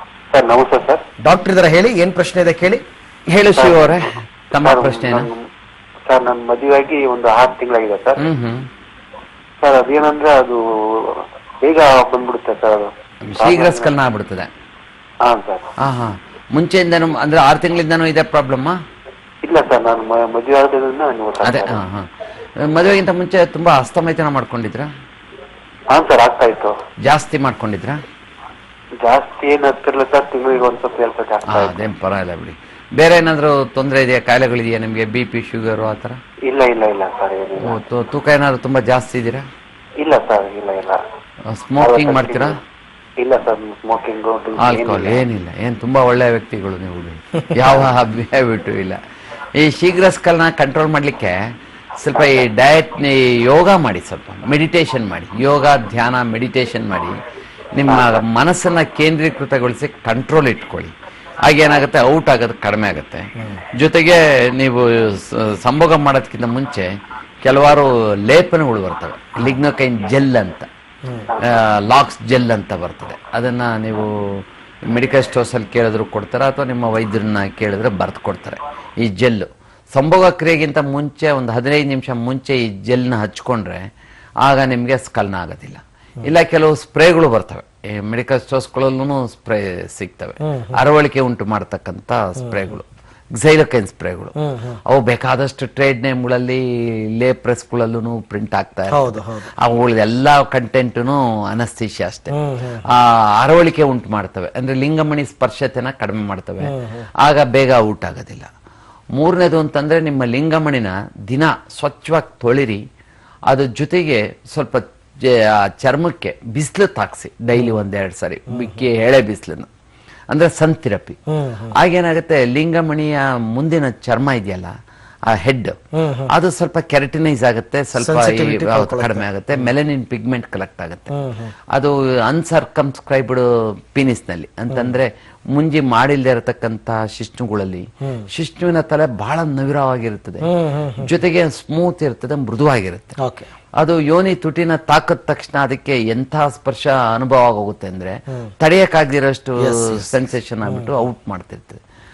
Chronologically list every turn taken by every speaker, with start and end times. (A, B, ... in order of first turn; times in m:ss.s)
0:00.3-0:01.0 A
0:01.2-0:02.8 B
0:03.3-0:05.3 C
0:03.6-0:04.1 A
0:04.6-0:05.4 A
0:06.1-0:08.2 A
0:08.2-0:08.6 C
0:09.6-0:14.0 A
0:13.2-0:14.5 C
0:15.3-0:15.7 A
0:15.8-0:18.8 C
0:19.4-0:21.8 A
0:21.4-0:22.1 C
0:22.6-0:24.9 C
0:25.9-0:26.7 A
0:27.0-0:28.0 C
0:29.0-0:31.9 A
0:31.5-0:36.2 C
0:36.5-0:37.8 A
0:37.6-0:39.4 C
0:40.0-0:41.0 A
0:41.5-0:42.6 C
0:41.8-0:42.6 A
0:43.2-0:45.2 A
0:44.6-0:49.0 C
0:49.6-0:51.4 C
0:52.0-0:57.2 C
0:52.2-0:52.5 A
0:57.8-1:00.9 C
0:57.9-0:58.2 A
1:01.5-1:06.9 C
1:07.4-1:10.7 C
1:11.3-1:11.6 A
1:11.4-1:14.1 C
1:14.9-1:23.8 C
1:24.4-1:34.3 C
1:30.4-1:30.8 B
1:34.4-1:34.8 B
1:34.9-1:36.6 C
1:37.2-1:42.3 C
1:38.9-1:39.5 B
1:42.3-1:42.8 B
1:42.9-1:48.5 C
1:46.6-1:47.1 B
1:49.2-1:52.8 C
1:53.5-1:59.7 C
1:58.5-1:58.8 B
2:00.3-2:01.2 C
2:01.3-2:01.7 B
2:01.8-2:04.7 C
2:05.3-2:05.8 C
2:06.0-2:06.3 B
2:06.3-2:11.1 C
2:08.0-2:09.3 B
2:11.1-2:11.5 B
2:11.7-2:23.2 C
2:18.0-2:18.3 B
2:20.4-2:21.1 B
2:23.2-2:23.5 B
2:23.8-2:31.8 C
2:29.6-2:30.1 B